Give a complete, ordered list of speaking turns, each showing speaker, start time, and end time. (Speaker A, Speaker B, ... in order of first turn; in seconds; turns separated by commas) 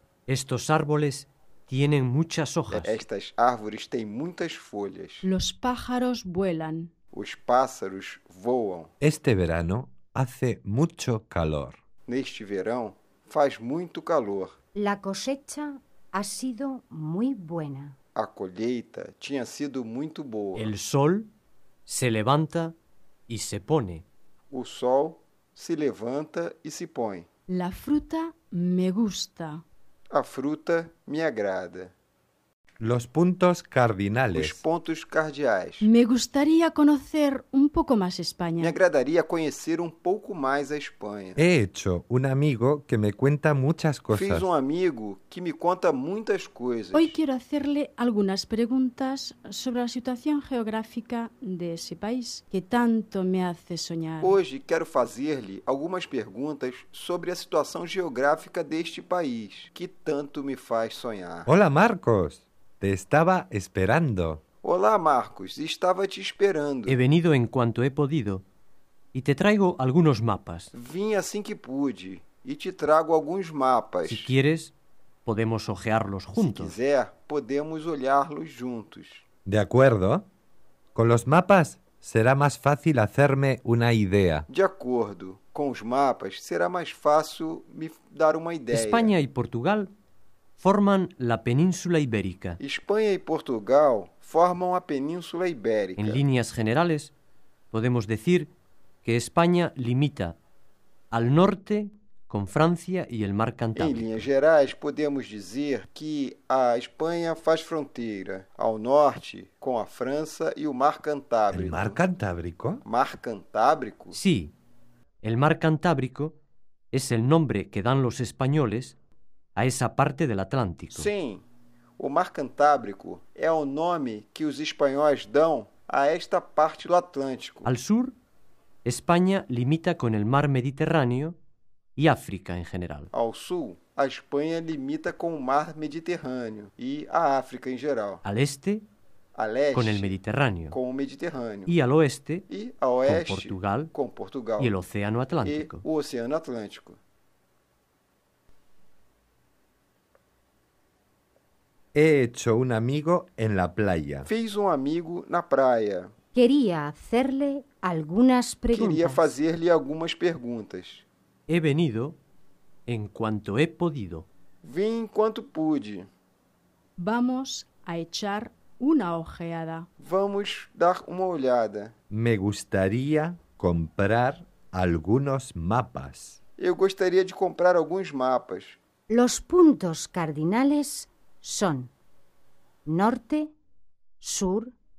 Speaker A: 0.3-3.0, Speaker B: 2.7-5.2, Speaker C: 5.2-6.9, Speaker B: 7.1-8.9, Speaker D: 9.0-11.8, Speaker B: 12.1-14.6, Speaker E: 14.7-17.9, Speaker B: 18.1-20.7, Speaker A: 20.5-21.3, Speaker A: 21.9-22.8, Speaker A: 23.3-24.0, Speaker B: 24.5-27.2, Speaker C: 27.5-29.6, Speaker B: 30.1-31.9, Speaker D: 32.8-34.6, Speaker B: 34.3-35.9, Speaker C: 35.8-38.8, Speaker B: 38.6-41.4, Speaker D: 41.4-44.5, Speaker B: 44.1-47.1, Speaker C: 46.9-54.4, Speaker B: 54.2-61.5, Speaker D: 61.5-64.4, Speaker B: 64.6-67.0, Speaker A: 66.8-68.4, Speaker A: 69.1-70.7, Speaker B: 70.7-74.3, Speaker A: 74.0-74.7, Speaker A: 75.2-76.8, Speaker B: 76.4-79.2, Speaker D: 79.5-80.2, Speaker D: 80.9-84.5, Speaker B: 84.5-89.1, Speaker A: 88.7-89.9, Speaker A: 90.6-92.6, Speaker B: 92.6-96.2, Speaker A: 96.0-97.1, Speaker A: 97.7-98.5, Speaker A: 99.0-100.4, Speaker A: 101.1-104.2, Speaker B: 103.8-112.0, Speaker D: 111.5-112.8, Speaker B: 112.8-114.2, Speaker A: 114.1-114.5, Speaker A: 115.2-116.4, Speaker A: 116.9-119.0, Speaker A: 119.5-121.1, Speaker B: 120.9-121.4, Speaker B: 122.0-127.7, Speaker A: 127.6-128.1, Speaker A: 128.8-131.3, Speaker A: 131.9-133.1, Speaker B: 133.1-138.2, Speaker A: 138.2-138.8, Speaker B: 139.3-140.1, Speaker A: 139.7-140.8, Speaker B: 140.7-141.7, Speaker A: 141.7-142.5, Speaker B: 142.5-144.7, Speaker A: 143.0-143.9, Speaker A: 144.6-145.8, Speaker B: 145.4-147.0, Speaker D: 151.9-154.3, Speaker B: 154.2-156.1, Speaker E: 156.3-159.2, Speaker B: 158.7-161.0, Speaker A: 161.5-162.2, Speaker A: 162.9-164.2, Speaker B: 164.6-166.1, Speaker C: 167.0-169.9, Speaker B: 170.0-171.9, Speaker D: 172.1-176.4, Speaker B: 176.6-178.8, Speaker E: 179.1-181.9, Speaker E: 182.8-183.5, Speaker E: 184.2-184.7